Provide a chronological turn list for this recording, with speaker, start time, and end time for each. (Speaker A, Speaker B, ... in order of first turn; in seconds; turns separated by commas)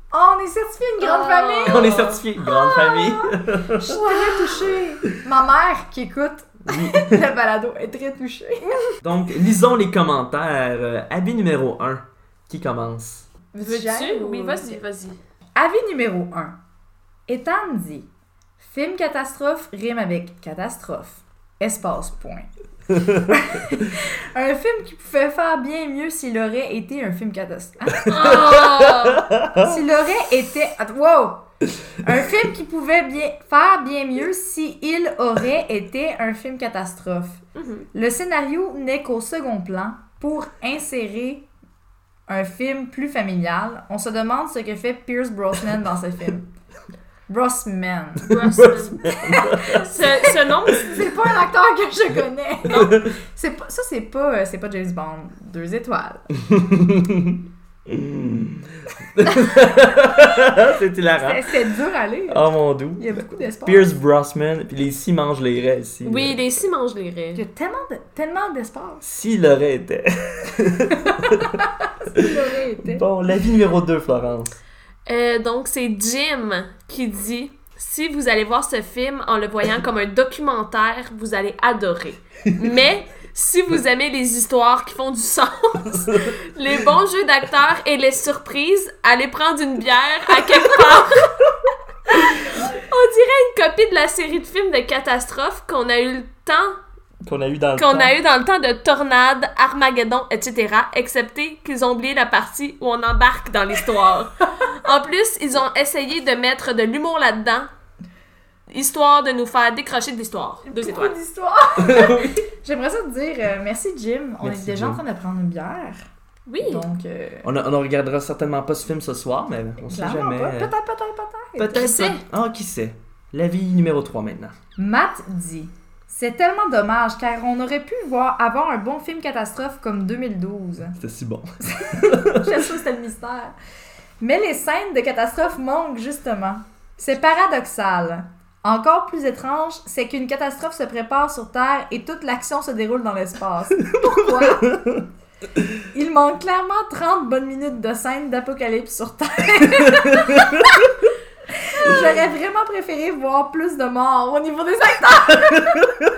Speaker A: 0.1-8.9, Speaker B: 1.0-2.2, Speaker C: 1.6-4.2, Speaker C: 6.7-7.2, Speaker C: 9.0-13.3, Speaker A: 13.5-14.8, Speaker B: 13.6-15.2, Speaker A: 15.6-16.6, Speaker A: 17.3-18.1, Speaker A: 18.6-22.5, Speaker C: 22.9-23.3, Speaker A: 23.0-28.6, Speaker B: 28.1-29.3, Speaker C: 28.1-29.8, Speaker A: 29.5-31.4, Speaker A: 32.0-37.4, Speaker B: 37.5-37.9, Speaker A: 37.9-41.5, Speaker A: 42.3-46.5, Speaker A: 47.3-48.4, Speaker C: 48.3-49.8, Speaker B: 48.3-51.0, Speaker A: 49.0-56.3, Speaker C: 52.6-53.1, Speaker B: 52.7-53.0, Speaker C: 56.5-61.5, Speaker A: 61.2-63.9, Speaker C: 62.3-66.4, Speaker B: 66.0-67.4, Speaker A: 67.3-69.1, Speaker C: 69.0-71.6, Speaker A: 71.0-73.0, Speaker C: 72.1-74.6, Speaker B: 75.0-91.4, Speaker B: 92.1-96.8, Speaker C: 97.2-98.1, Speaker B: 97.8-107.7, Speaker B: 108.7-111.2, Speaker A: 110.6-116.0, Speaker C: 111.8-112.5, Speaker C: 114.4-115.0, Speaker B: 116.5-116.8, Speaker A: 116.6-117.5, Speaker C: 117.4-120.7, Speaker A: 119.8-122.2, Speaker C: 121.6-124.5, Speaker B: 121.7-122.1, Speaker A: 124.8-131.0, Speaker C: 131.0-132.6, Speaker A: 131.6-133.5, Speaker A: 134.2-144.8, Speaker C: 144.0-145.0, Speaker A: 145.9-150.9, Speaker C: 150.2-150.6, Speaker A: 151.5-155.9